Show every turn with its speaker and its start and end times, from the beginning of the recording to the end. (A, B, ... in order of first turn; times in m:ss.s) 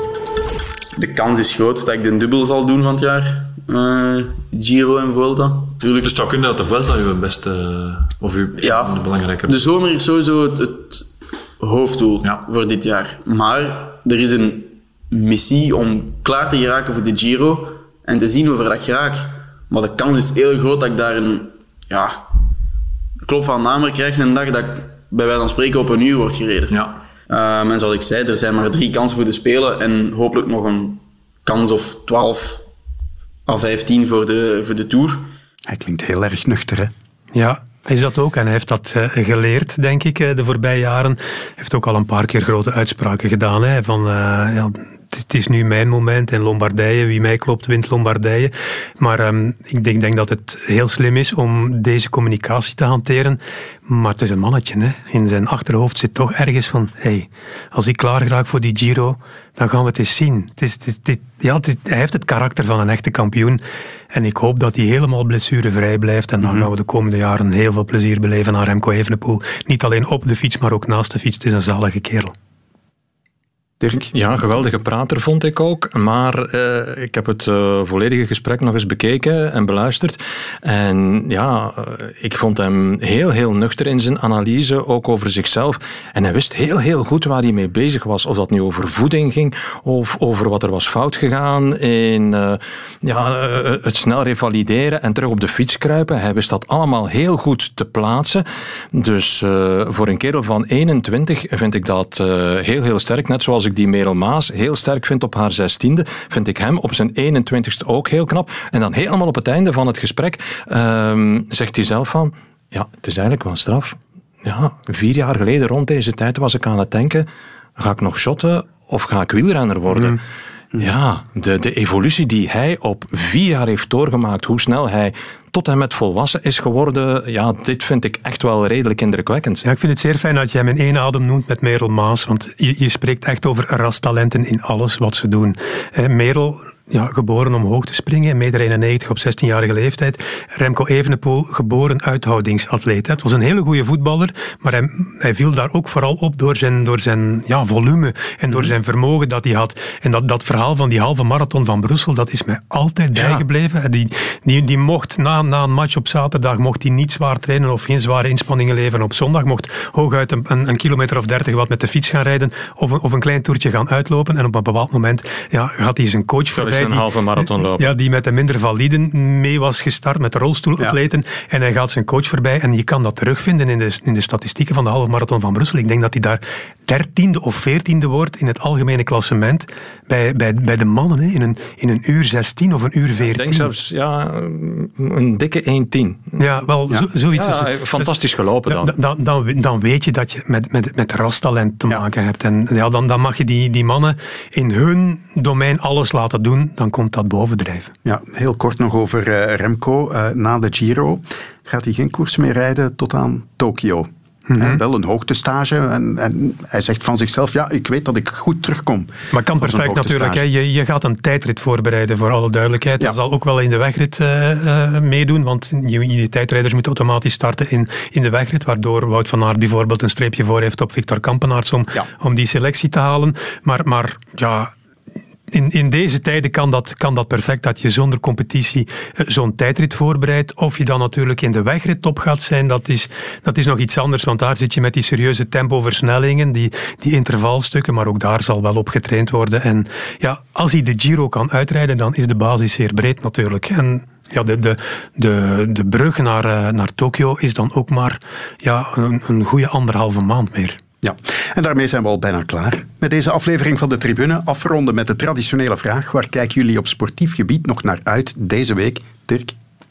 0:01.0-0:06.1 A
0:05.9-0:09.7 B
0:08.6-0:22.2 A
0:23.2-0:26.8 A
0:26.7-0:27.0 B
0:27.3-0:32.6 A
0:33.5-0:35.3 A
0:35.7-0:36.9 C
0:37.3-1:03.6 D
1:04.1-1:12.3 D
1:06.4-1:06.7 C
1:13.8-1:14.1 C
1:14.1-2:00.2 E
2:00.8-2:09.6 E
2:09.6-3:03.7 D
2:33.1-2:33.4 E
2:46.5-2:47.9 E
3:03.2-3:06.3 E
3:06.4-3:08.1 D
3:07.3-3:08.9 E
3:08.7-3:17.9 D
3:18.0-3:30.4 C
3:24.5-3:24.8 D
3:29.3-3:44.7 D
3:45.5-4:10.8 D
4:11.0-4:19.6 C